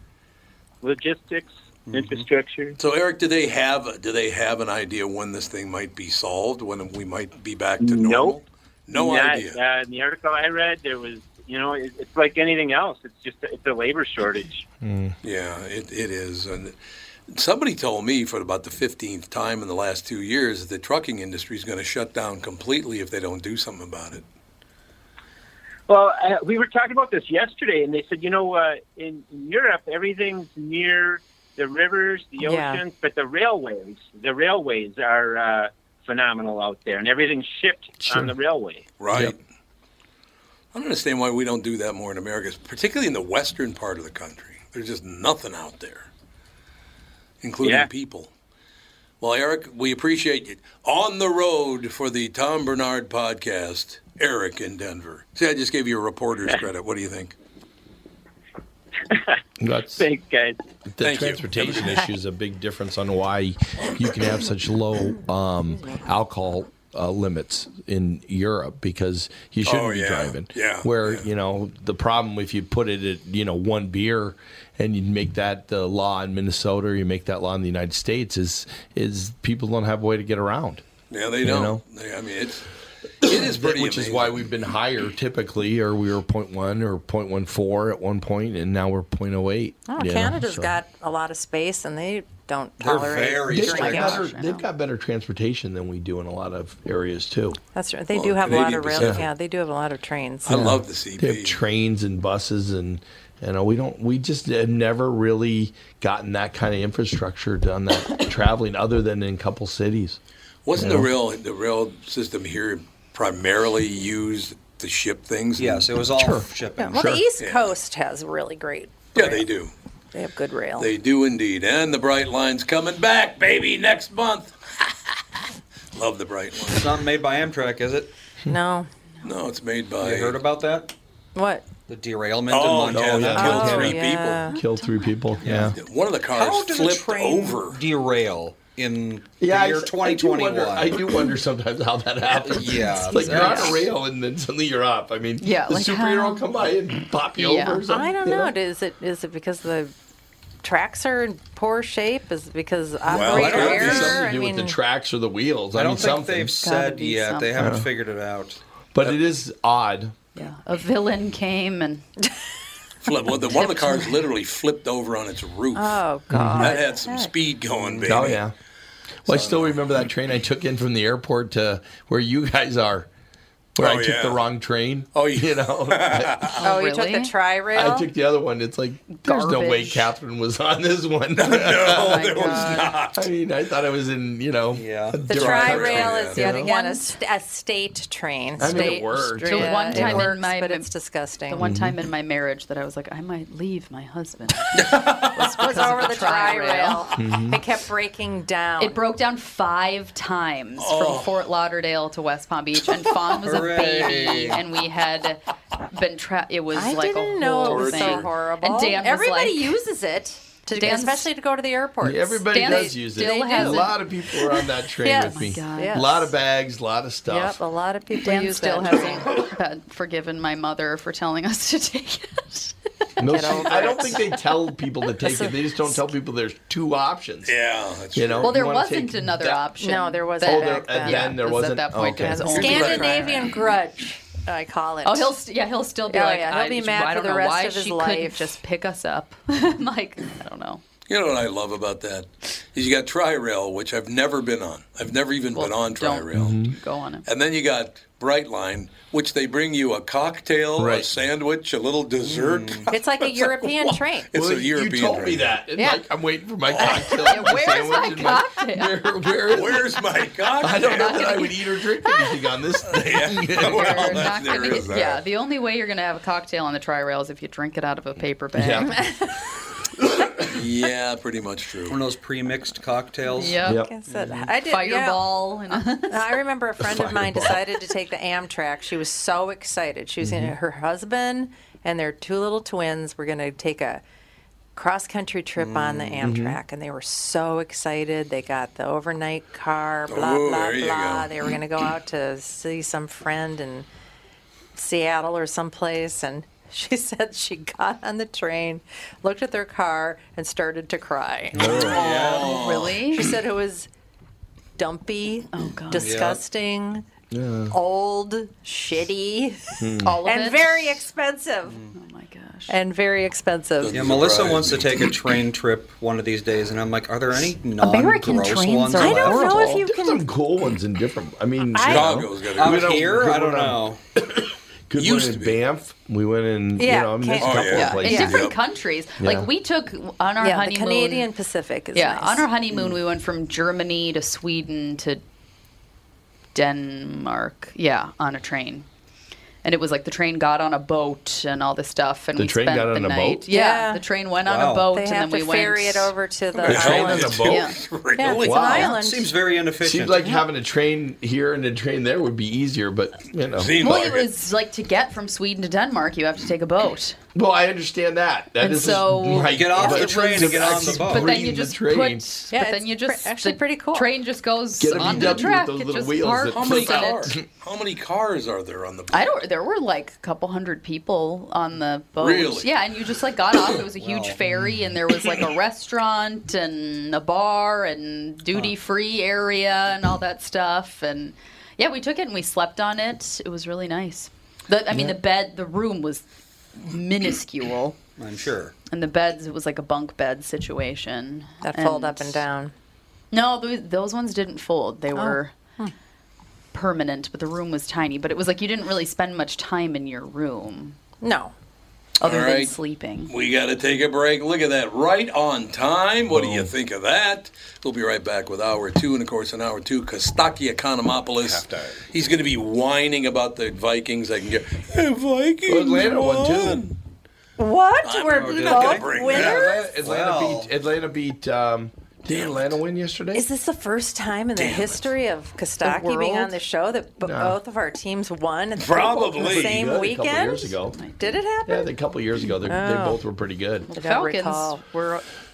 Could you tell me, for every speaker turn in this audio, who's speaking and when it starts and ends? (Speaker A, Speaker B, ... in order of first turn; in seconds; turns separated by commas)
Speaker A: 0.8-2.8, Speaker B: 1.9-2.3, Speaker C: 2.8-9.6, Speaker A: 7.8-8.4, Speaker A: 8.9-14.6, Speaker D: 14.8-15.2, Speaker C: 15.2-16.7, Speaker C: 17.3-24.2, Speaker A: 25.9-38.9, Speaker E: 32.4-32.8, Speaker D: 38.0-38.3, Speaker C: 39.0-39.4, Speaker C: 40.7-46.1, Speaker C: 47.4-48.3, Speaker A: 47.6-47.9, Speaker C: 49.2-57.3, Speaker D: 59.6-60.0, Speaker A: 59.9-60.6, Speaker D: 60.9-80.8, Speaker C: 61.0-62.0, Speaker C: 69.6-71.2, Speaker C: 81.1-82.7, Speaker D: 81.4-81.8, Speaker C: 83.2-84.5, Speaker D: 83.2-90.7, Speaker E: 89.9-94.2, Speaker B: 92.8-94.3, Speaker D: 93.5-97.6, Speaker F: 93.6-94.7, Speaker E: 97.7-100.7, Speaker C: 98.1-99.3, Speaker D: 98.5-99.2, Speaker C: 100.4-101.6, Speaker D: 100.5-110.2, Speaker C: 110.6-115.8, Speaker D: 110.8-111.1, Speaker B: 115.6-117.2, Speaker D: 116.1-117.2, Speaker E: 116.8-119.5, Speaker C: 117.4-117.7, Speaker C: 119.1-119.7, Speaker E: 120.1-120.9, Speaker C: 120.8-124.5, Speaker C: 125.9-126.9, Speaker B: 126.6-128.1, Speaker E: 128.5-128.9, Speaker C: 129.2-130.4, Speaker B: 130.0-130.9, Speaker E: 131.3-131.6, Speaker B: 131.9-133.8, Speaker C: 132.5-134.5, Speaker D: 132.9-133.9, Speaker E: 133.3-134.5, Speaker F: 134.5-135.4, Speaker D: 134.5-135.8, Speaker B: 135.4-135.8, Speaker C: 135.7-137.8, Speaker B: 136.3-141.2, Speaker D: 139.4-148.6, Speaker B: 142.4-143.8, Speaker E: 143.2-143.7, Speaker F: 145.4-146.5, Speaker F: 147.3-147.9, Speaker E: 147.9-149.9, Speaker E: 150.6-154.8, Speaker C: 153.1-154.2, Speaker B: 153.2-154.2, Speaker D: 153.2-156.5, Speaker B: 155.7-158.6, Speaker F: 156.6-157.6, Speaker E: 156.6-157.1, Speaker D: 157.6-157.9, Speaker D: 158.9-160.1, Speaker F: 160.3-162.1, Speaker C: 163.0-166.0, Speaker F: 163.5-164.2, Speaker E: 165.7-167.3, Speaker D: 166.3-166.8, Speaker C: 166.5-168.5, Speaker B: 167.7-168.2, Speaker D: 168.0-168.5, Speaker D: 169.2-173.1, Speaker C: 169.3-169.9, Speaker D: 173.7-176.5, Speaker C: 173.8-174.4, Speaker C: 175.1-176.6, Speaker F: 176.6-177.3, Speaker E: 176.6-178.1, Speaker D: 177.7-182.3, Speaker F: 179.1-180.1, Speaker C: 181.3-183.3, Speaker F: 182.1-182.9, Speaker E: 182.3-182.9, Speaker D: 183.1-186.7, Speaker B: 184.7-185.2, Speaker E: 185.3-191.6, Speaker C: 185.3-186.4, Speaker F: 186.5-187.2, Speaker D: 188.6-190.3, Speaker F: 189.4-190.9, Speaker F: 191.5-197.1, Speaker D: 191.6-191.9, Speaker C: 194.8-195.4, Speaker E: 195.4-199.0, Speaker D: 197.2-197.6, Speaker F: 198.8-205.4, Speaker C: 200.8-201.4, Speaker B: 203.4-204.6, Speaker F: 205.9-209.7, Speaker E: 206.7-213.9, Speaker C: 207.6-208.3, Speaker F: 210.7-211.3, Speaker D: 212.0-217.6, Speaker F: 212.5-214.0, Speaker E: 215.0-216.3, Speaker F: 215.1-216.2, Speaker E: 217.3-219.3, Speaker F: 218.2-222.7, Speaker D: 223.2-227.5, Speaker E: 223.3-224.4, Speaker E: 225.2-226.0, Speaker C: 227.5-228.6, Speaker D: 228.1-229.4, Speaker F: 228.4-233.7, Speaker E: 229.8-231.4, Speaker D: 230.4-232.7, Speaker E: 232.1-235.3, Speaker C: 232.5-233.3, Speaker F: 235.0-240.8, Speaker E: 236.1-238.6, Speaker C: 241.1-246.6, Speaker F: 245.5-247.2, Speaker D: 246.3-246.7, Speaker C: 247.2-255.5, Speaker D: 250.8-251.1, Speaker B: 252.2-252.9, Speaker E: 252.9-254.3, Speaker D: 254.3-259.9, Speaker E: 255.8-256.0, Speaker C: 256.7-257.4, Speaker F: 257.2-259.2, Speaker C: 259.5-261.3, Speaker D: 260.6-264.3, Speaker F: 260.6-262.4, Speaker C: 262.9-265.2, Speaker F: 263.6-269.0, Speaker D: 268.5-269.1, Speaker D: 270.0-270.3, Speaker C: 270.5-272.0, Speaker B: 271.9-273.6, Speaker F: 273.3-273.9, Speaker D: 273.6-274.4, Speaker E: 273.7-284.0, Speaker F: 274.6-276.4, Speaker D: 276.8-277.6, Speaker D: 280.2-280.5, Speaker E: 284.8-293.9, Speaker B: 285.6-286.2, Speaker D: 286.2-286.6, Speaker C: 290.1-291.4, Speaker E: 294.7-301.7, Speaker B: 301.5-302.6, Speaker D: 301.6-302.0, Speaker C: 301.7-303.0, Speaker F: 302.0-303.4, Speaker E: 303.1-303.9, Speaker E: 304.8-307.1, Speaker F: 305.5-306.2, Speaker B: 306.0-306.4, Speaker D: 307.3-307.7, Speaker E: 307.7-311.8, Speaker D: 309.8-310.2, Speaker F: 310.0-310.7, Speaker F: 311.9-312.7, Speaker E: 312.7-314.1, Speaker C: 313.8-315.1, Speaker B: 313.9-319.6, Speaker F: 317.8-319.8, Speaker E: 319.0-320.3, Speaker D: 319.6-328.5, Speaker F: 321.8-322.1, Speaker C: 321.8-323.2, Speaker B: 322.6-324.0, Speaker C: 324.9-325.6, Speaker E: 326.8-328.3, Speaker C: 327.4-328.6, Speaker F: 327.7-331.3, Speaker D: 329.2-329.5, Speaker E: 330.4-332.5, Speaker F: 331.9-335.2, Speaker B: 332.7-333.0, Speaker F: 336.5-338.9, Speaker F: 339.6-346.1, Speaker D: 342.4-343.4, Speaker E: 343.5-344.0, Speaker B: 344.4-344.9, Speaker E: 344.9-347.5, Speaker C: 346.6-349.0, Speaker D: 346.6-347.7, Speaker F: 347.5-347.8, Speaker E: 348.2-349.3, Speaker D: 348.2-348.9, Speaker B: 348.9-350.3, Speaker D: 349.8-354.0, Speaker C: 353.6-354.3, Speaker F: 353.8-357.2, Speaker D: 357.3-362.2, Speaker F: 358.6-367.3, Speaker B: 359.4-361.4, Speaker E: 362.5-364.1, Speaker D: 364.8-367.4, Speaker E: 365.0-367.1, Speaker B: 365.0-365.5, Speaker C: 366.5-369.3, Speaker F: 369.1-386.3, Speaker C: 372.2-372.7, Speaker B: 374.0-374.4, Speaker D: 374.4-374.8, Speaker F: 386.8-388.0, Speaker B: 388.2-388.8, Speaker F: 388.9-392.4, Speaker E: 391.6-392.7, Speaker F: 393.3-395.5, Speaker E: 395.1-395.9, Speaker F: 396.7-401.0, Speaker E: 401.2-401.5, Speaker C: 402.2-402.7, Speaker F: 402.2-403.3, Speaker C: 403.3-416.9, Speaker D: 406.3-406.7, Speaker D: 415.7-416.9, Speaker E: 417.6-419.8, Speaker C: 418.0-419.9, Speaker B: 418.3-420.7, Speaker D: 419.3-423.4, Speaker C: 422.3-422.7, Speaker E: 423.3-431.9, Speaker C: 424.6-425.1, Speaker F: 425.8-426.6, Speaker D: 427.2-427.6, Speaker C: 428.8-429.8, Speaker D: 429.4-431.0, Speaker F: 430.9-431.4, Speaker D: 431.6-433.9, Speaker E: 432.7-433.2, Speaker E: 433.9-435.2, Speaker F: 433.9-435.1